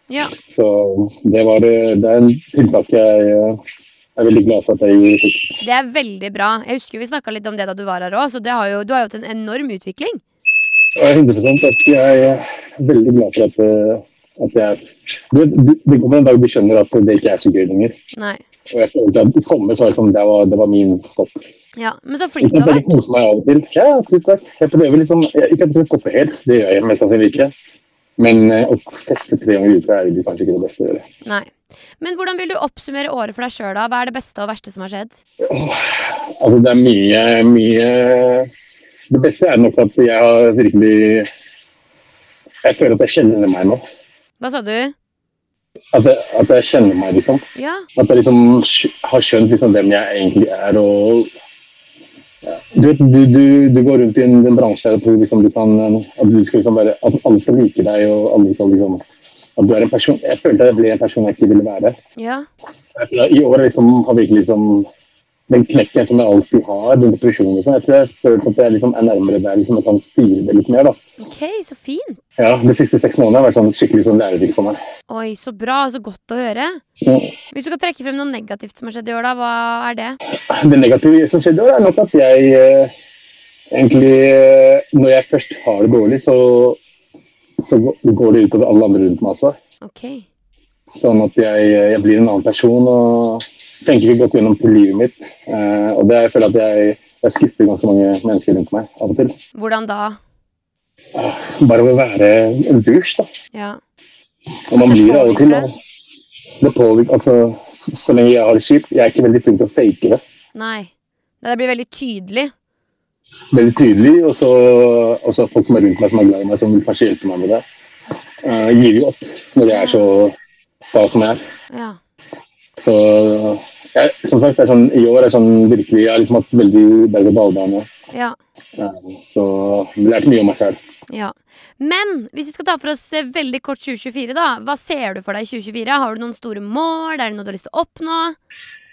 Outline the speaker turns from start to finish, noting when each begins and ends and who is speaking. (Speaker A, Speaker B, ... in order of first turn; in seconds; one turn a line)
Speaker A: 0.1-0.3
Speaker B: 0.5-3.6
Speaker B: 4.2-5.5
Speaker A: 5.6-10.2
Speaker B: 10.9-18.0
Speaker A: 18.1-18.4
Speaker B: 18.7-21.4
Speaker A: 21.8-23.0
Speaker B: 22.4-27.5
Speaker B: 28.2-31.0
Speaker A: 31.2-35.2
Speaker B: 35.4-38.5
Speaker B: 39.1-41.3
Speaker B: 42.6-43.8
Speaker A: 44.4-44.9
Speaker B: 45.9-47.4
Speaker A: 47.6-47.9
Speaker B: 48.0-51.3
Speaker B: 52.5-59.0
Speaker B: 59.6-62.0
Speaker A: 62.2-62.5
Speaker B: 63.0-64.9
Speaker B: 65.5-71.0
Speaker A: 71.2-72.2
Speaker B: 72.4-74.8
Speaker A: 75.1-76.8
Speaker B: 77.0-77.3
Speaker A: 77.5-80.2
Speaker B: 80.5-82.9
Speaker B: 83.7-86.8
Speaker B: 87.6-89.5
Speaker A: 89.8-90.2
Speaker B: 90.9-99.3
Speaker A: 99.5-100.2
Speaker B: 101.2-103.3
Speaker A: 103.5-103.8
Speaker B: 104.7-105.7
Speaker A: 104.8-105.7
Speaker B: 106.6-110.2
Speaker A: 110.5-110.9
Speaker A: 111.4-112.5
Speaker B: 113.5-117.6
Speaker B: 118.4-121.4
Speaker A: 119.7-120.1
Speaker A: 121.7-122.0
Speaker B: 122.8-127.9
Speaker A: 128.1-128.4
Speaker B: 128.8-130.8
Speaker A: 131.1-138.3